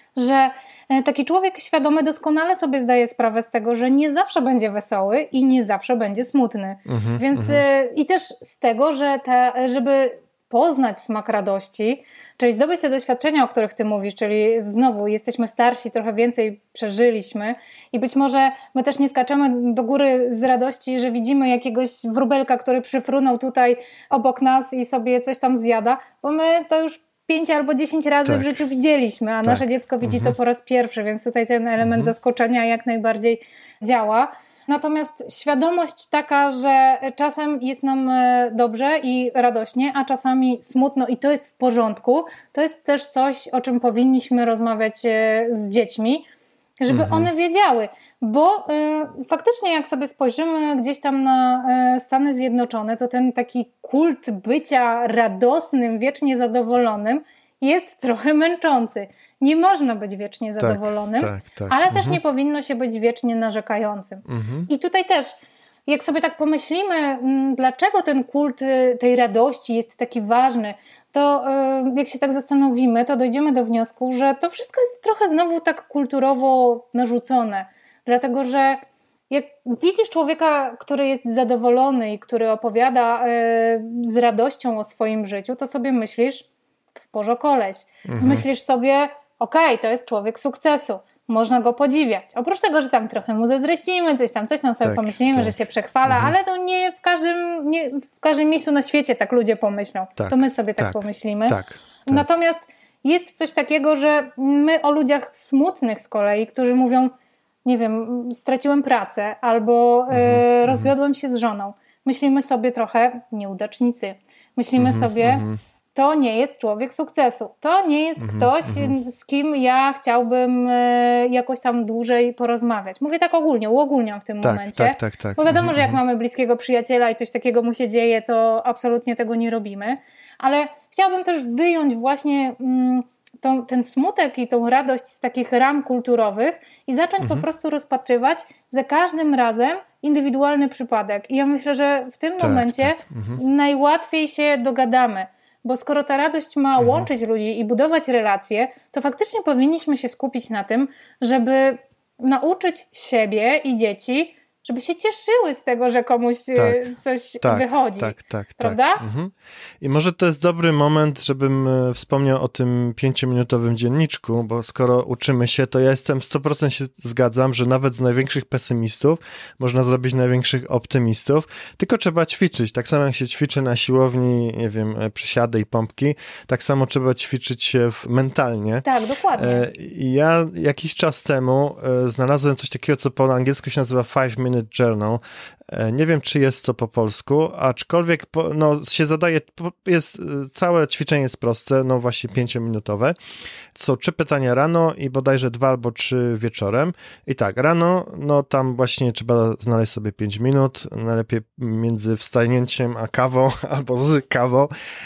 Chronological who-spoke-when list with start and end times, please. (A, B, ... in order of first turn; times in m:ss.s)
0:00.2-0:46.3 A
0:06.9-0:07.6 B
0:28.3-0:28.6 B
0:29.4-0:30.4 B
0:31.8-0:32.1 B
0:46.8-1:05.4 A
0:46.9-0:47.3 B
1:00.6-1:02.2 B
1:04.3-1:04.7 B
1:05.9-1:26.5 A
1:27.0-1:47.1 A
1:28.1-1:28.4 B
1:34.8-1:35.6 B
1:36.1-1:36.4 B
1:40.2-1:42.2 B
1:47.6-2:39.0 A
1:50.1-1:50.9 B
1:54.8-1:55.6 B
1:58.2-1:59.0 B
2:04.4-2:06.0 B
2:17.2-2:17.5 B
2:22.4-2:23.4 B
2:26.8-2:27.1 B
2:36.6-2:36.9 B
2:37.4-3:13.2 B
2:58.8-2:59.7 A
3:13.7-3:24.7 B